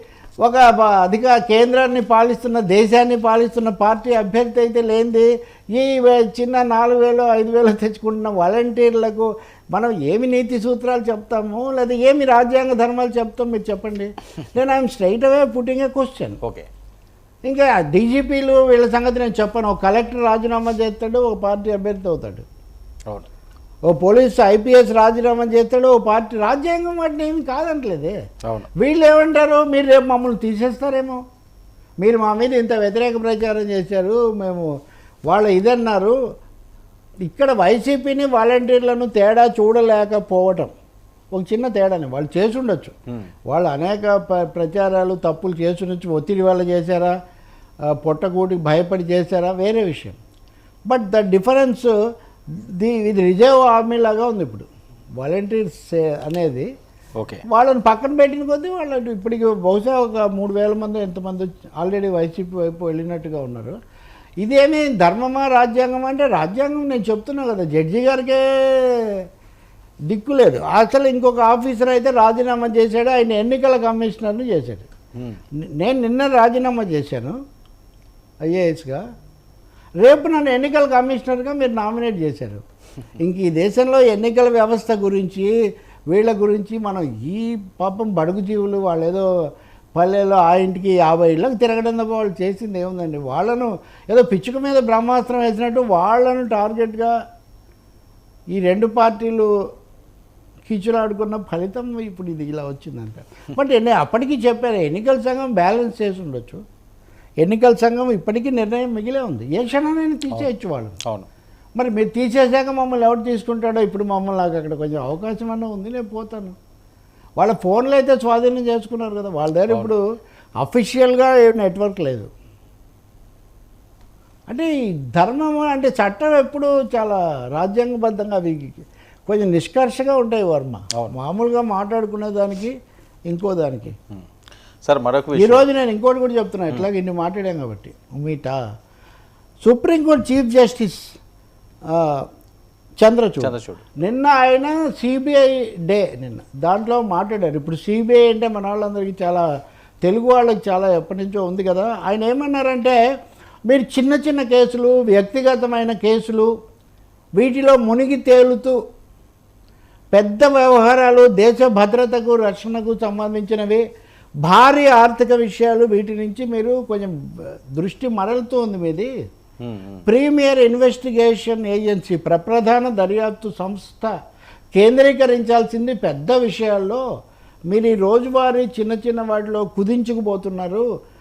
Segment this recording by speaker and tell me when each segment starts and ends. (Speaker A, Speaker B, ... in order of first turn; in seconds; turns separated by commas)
Speaker A: 0.4-16.4, Speaker B: 16.4-16.7, Speaker A: 17.4-22.4, Speaker A: 23.9-28.1, Speaker A: 28.8-31.2, Speaker A: 32.0-34.7, Speaker A: 35.3-36.1, Speaker A: 37.2-40.7, Speaker A: 41.3-43.0, Speaker A: 43.5-47.1, Speaker A: 48.0-50.2, Speaker A: 50.9-51.9, Speaker A: 52.5-54.7, Speaker A: 55.2-56.7, Speaker B: 57.2-57.4, Speaker A: 57.5-63.8, Speaker A: 64.4-69.2, Speaker A: 70.1-74.9, Speaker A: 75.8-77.4, Speaker A: 78.5-79.0, Speaker A: 80.0-82.6, Speaker A: 83.2-85.5, Speaker A: 86.1-89.2, Speaker A: 90.0-97.1, Speaker A: 98.6-99.5, Speaker A: 100.7-106.6, Speaker A: 107.4-111.0, Speaker A: 111.8-116.6, Speaker A: 117.4-120.0, Speaker A: 120.6-122.3, Speaker A: 124.5-132.7, Speaker A: 133.3-133.9, Speaker B: 134.8-135.7, Speaker A: 135.4-138.6, Speaker A: 139.6-141.2, Speaker A: 141.9-142.2, Speaker A: 143.0-149.4, Speaker B: 143.4-143.8, Speaker A: 150.0-152.9, Speaker A: 153.7-156.5, Speaker A: 157.4-158.8, Speaker A: 160.1-163.8, Speaker A: 164.4-167.1, Speaker A: 167.8-169.1, Speaker B: 169.6-170.0, Speaker A: 170.1-174.1, Speaker A: 174.8-177.0, Speaker A: 177.7-180.8